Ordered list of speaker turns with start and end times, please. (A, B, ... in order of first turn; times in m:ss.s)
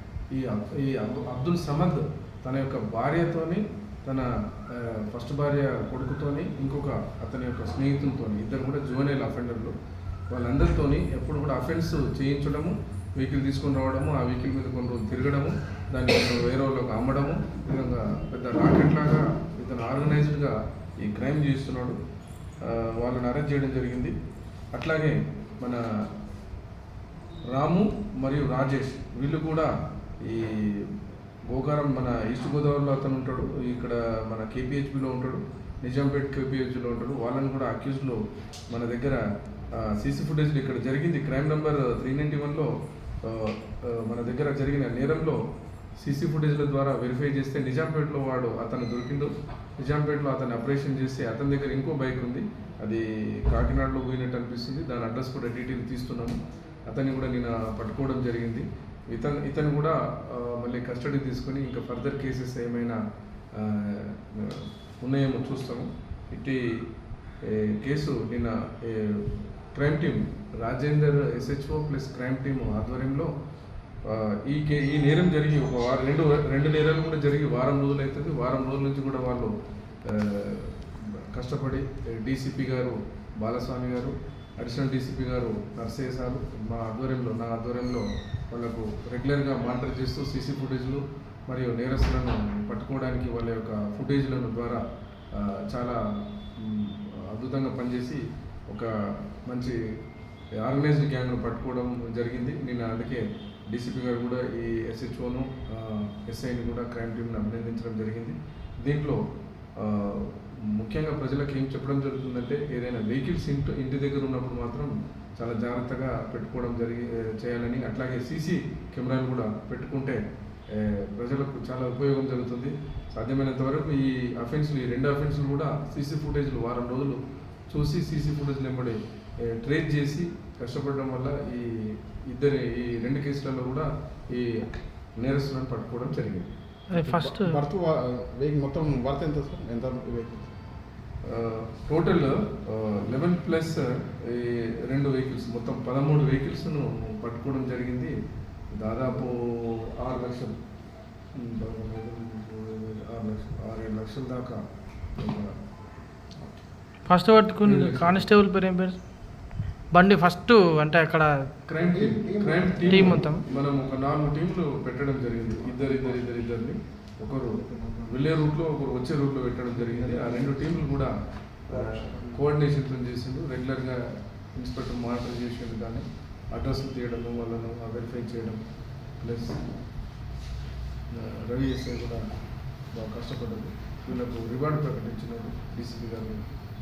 0:00.3-0:09.7 A
0:10.3-0:22.0 A
0:22.6-0:24.1 A
0:24.7-0:25.8 A
0:27.5-0:30.9 A
0:31.5-0:45.4 A
0:46.0-1:03.0 A
1:03.5-1:06.8 A
1:07.4-1:13.3 A
1:14.0-1:19.5 A
1:20.0-1:39.8 A
1:40.6-1:49.2 A
1:49.8-2:07.2 A
2:07.7-2:16.5 A
2:16.9-2:17.6 B
2:16.9-2:20.5 C
2:21.2-2:28.1 A
2:28.8-2:30.5 A
2:31.3-2:34.6 A
2:35.2-2:35.5 A
2:37.1-2:41.5 B
2:37.6-2:38.3 A
2:41.6-2:51.1 A
2:41.9-2:43.6 C
2:42.9-2:43.4 B
2:45.8-2:46.2 C
2:47.7-2:48.2 C
2:49.9-2:50.7 C
2:51.7-2:58.6 A
2:51.7-2:52.2 C
2:59.2-2:59.6 A
3:01.1-3:02.2 A
3:02.9-3:06.5 A